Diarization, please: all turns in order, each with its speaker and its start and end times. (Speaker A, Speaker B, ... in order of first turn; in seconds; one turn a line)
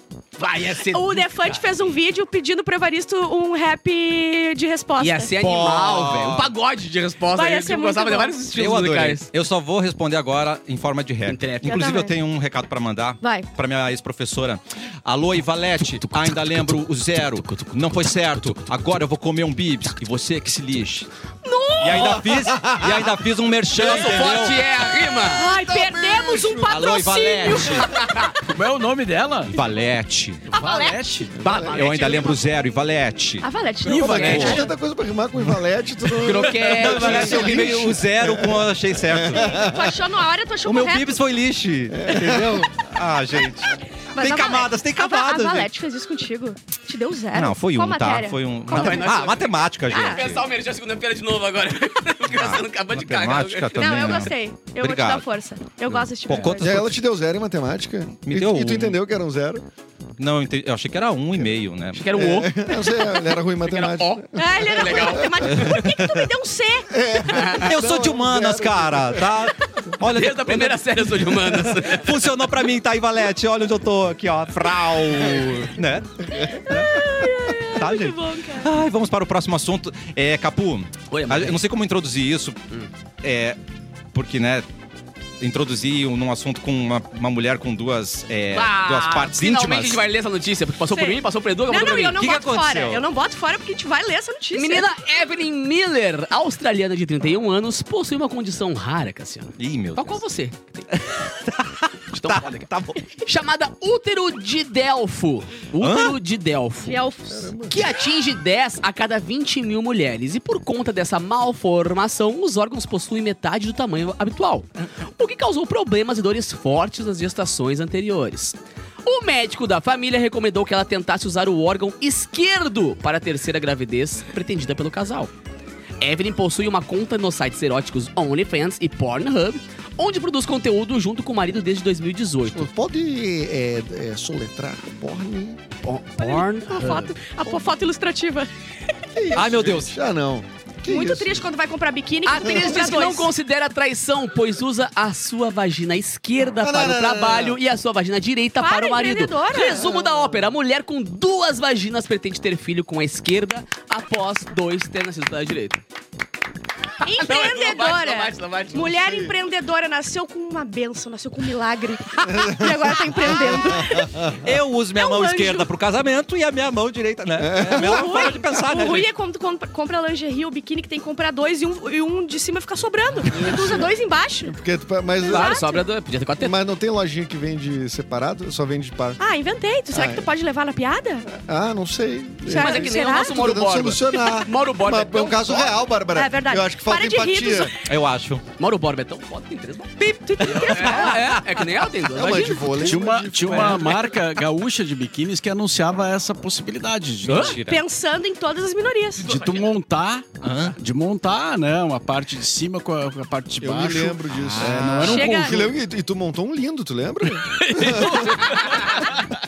Speaker A: 0.4-1.6
Speaker B: 0.9-5.3
Speaker A: 5.0-9.3
Speaker C: 5.4-6.5
Speaker B: 7.3-8.4
Speaker C: 8.5-21.1
Speaker A: 11.3-11.8
Speaker B: 11.6-12.1
Speaker B: 13.2-13.5
Speaker A: 15.9-17.7
Speaker A: 18.3-18.7
Speaker B: 21.4-22.2
Speaker C: 21.8-24.6
Speaker D: 21.9-23.2
Speaker A: 23.7-25.5
Speaker B: 25.3-28.4
Speaker D: 25.4-27.0
Speaker C: 26.7-27.9
Speaker A: 27.9-28.3
Speaker E: 28.4-29.6
Speaker C: 29.5-30.5
Speaker B: 30.5-31.2
Speaker E: 30.5-31.4
Speaker D: 31.4-32.2
Speaker A: 31.4-32.4
Speaker C: 31.6-33.5
Speaker B: 33.4-34.7
Speaker E: 33.9-34.6
Speaker D: 33.9-40.0
Speaker C: 34.0-34.6
Speaker A: 36.1-38.0
Speaker C: 36.6-39.7
Speaker B: 39.3-41.2
Speaker C: 40.6-45.7
Speaker D: 41.9-42.7
Speaker B: 44.1-49.1
Speaker C: 47.3-50.5
Speaker A: 48.7-54.3
Speaker B: 49.9-50.2
Speaker C: 52.3-55.2
Speaker B: 53.8-56.9
Speaker C: 55.9-57.0
Speaker D: 56.4-59.6
Speaker C: 58.2-59.0
Speaker C: 60.2-62.1
Speaker A: 61.9-65.8
Speaker D: 62.1-65.8
Speaker B: 64.3-67.4
Speaker C: 65.6-66.0
Speaker D: 66.9-69.5
Speaker A: 67.3-67.7
Speaker C: 67.6-82.6
Speaker A: 70.0-72.3
Speaker B: 76.4-78.7
Speaker A: 81.1-81.6
Speaker C: 83.2-83.6
Speaker C: 84.1-84.7
Speaker C: 85.4-90.0
Speaker A: 88.5-92.2
Speaker B: 90.9-94.9
Speaker C: 92.2-93.0
Speaker A: 94.5-100.9
Speaker C: 99.6-100.2
Speaker C: 100.9-103.0
Speaker A: 102.1-107.0
Speaker C: 105.8-106.2
Speaker B: 106.8-107.5
Speaker D: 107.3-107.8
Speaker A: 107.7-125.3
Speaker A: 126.0-132.7
Speaker D: 132.5-135.6
Speaker A: 135.8-137.1
Speaker B: 136.2-138.5
Speaker D: 139.1-141.4
Speaker C: 139.3-139.9
Speaker B: 140.9-143.3
Speaker A: 142.3-155.8
Speaker D: 146.6-147.6
Speaker B: 148.6-149.9
Speaker B: 157.0-164.3
Speaker A: 157.2-159.0
Speaker D: 159.0-159.3
Speaker D: 162.2-164.5
Speaker C: 163.5-169.1
Speaker B: 164.9-165.7
Speaker D: 167.4-168.6
Speaker B: 167.7-174.5
Speaker D: 173.3-173.9
Speaker D: 174.4-175.6
Speaker B: 175.2-175.8
Speaker A: 175.3-176.6
Speaker D: 176.4-179.2
Speaker B: 179.2-181.3
Speaker D: 179.9-180.3
Speaker D: 181.3-187.8
Speaker B: 182.5-183.4
Speaker A: 182.5-185.8
Speaker B: 186.1-187.7
Speaker C: 187.8-188.4
Speaker A: 188.6-194.0
Speaker B: 190.0-191.3
Speaker C: 190.5-191.4
Speaker D: 192.1-194.0
Speaker E: 192.8-197.6
Speaker A: 197.3-197.6
Speaker C: 197.3-197.8
Speaker B: 197.7-199.3
Speaker A: 199.2-199.6
Speaker E: 199.2-205.7
Speaker C: 200.4-200.8
Speaker D: 203.6-208.4
Speaker C: 204.4-205.1
Speaker B: 205.0-205.6
Speaker A: 207.8-209.0
Speaker B: 208.7-209.0